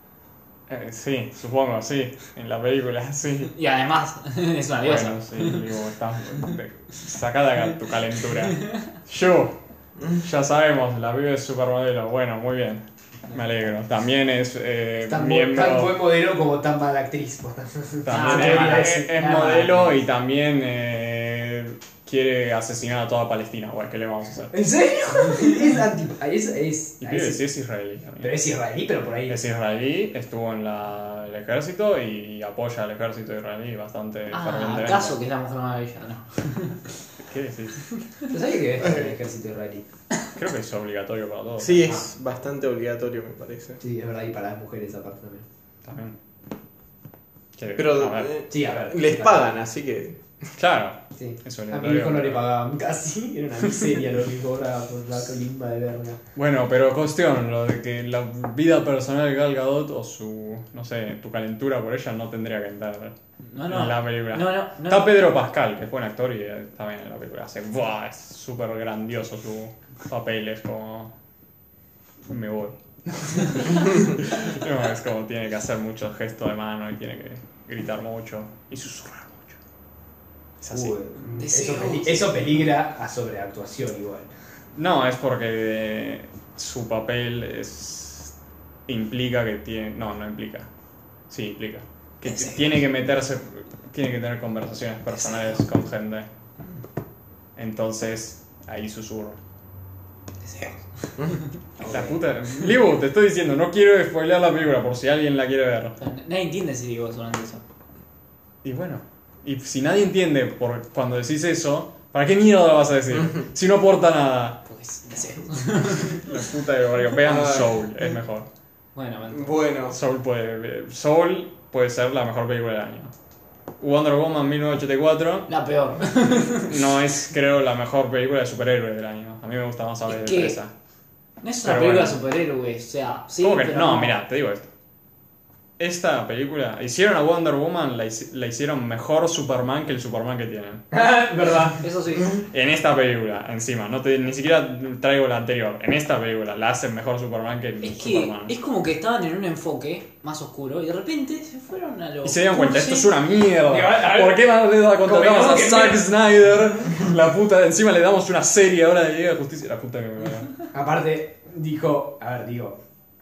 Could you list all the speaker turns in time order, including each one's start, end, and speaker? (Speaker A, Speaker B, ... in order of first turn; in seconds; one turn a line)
Speaker A: 0.7-3.5
Speaker B: 3.4-5.8
Speaker A: 4.8-16.1
Speaker B: 8.4-8.8
Speaker C: 15.1-20.0
Speaker A: 18.0-24.6
Speaker B: 18.1-19.7
Speaker C: 24.5-27.4
Speaker A: 27.0-28.4
Speaker C: 28.2-29.4
Speaker A: 29.3-35.2
Speaker B: 34.3-37.0
Speaker A: 37.2-37.9
Speaker C: 38.3-39.8
Speaker D: 38.8-39.1
Speaker A: 40.3-42.0
Speaker D: 41.6-43.8
Speaker C: 43.8-45.4
Speaker A: 45.8-46.1
Speaker A: 47.6-48.3
Speaker D: 47.7-50.2
Speaker C: 48.5-49.6
Speaker A: 50.5-52.5
Speaker C: 51.1-56.2
Speaker A: 56.3-63.1
Speaker B: 63.4-65.4
Speaker A: 63.6-71.1
Speaker A: 72.2-79.6
Speaker A: 80.6-81.1
Speaker C: 80.7-84.3
Speaker B: 81.2-82.7
Speaker A: 84.8-88.3
Speaker A: 88.9-90.7
Speaker A: 91.3-96.3
Speaker B: 92.2-92.9
Speaker B: 95.1-95.6
Speaker A: 97.5-99.4
Speaker B: 100.5-100.8
Speaker A: 101.8-105.9
Speaker C: 101.8-102.2
Speaker B: 106.0-107.6
Speaker A: 108.6-114.6
Speaker B: 114.6-116.2
Speaker A: 116.1-118.5
Speaker D: 117.2-117.9
Speaker B: 118.9-119.5
Speaker D: 119.3-120.0
Speaker A: 119.9-123.1
Speaker A: 123.8-125.5
Speaker B: 125.5-126.8
Speaker A: 126.6-130.7
Speaker B: 130.1-130.6
Speaker B: 131.4-134.2
Speaker A: 131.6-132.2
Speaker A: 133.4-134.7
Speaker A: 135.8-140.8
Speaker C: 140.9-141.8
Speaker B: 141.8-142.4
Speaker A: 142.4-148.5
Speaker B: 147.8-153.2
Speaker A: 152.2-160.5
Speaker C: 153.7-156.1
Speaker C: 160.7-162.8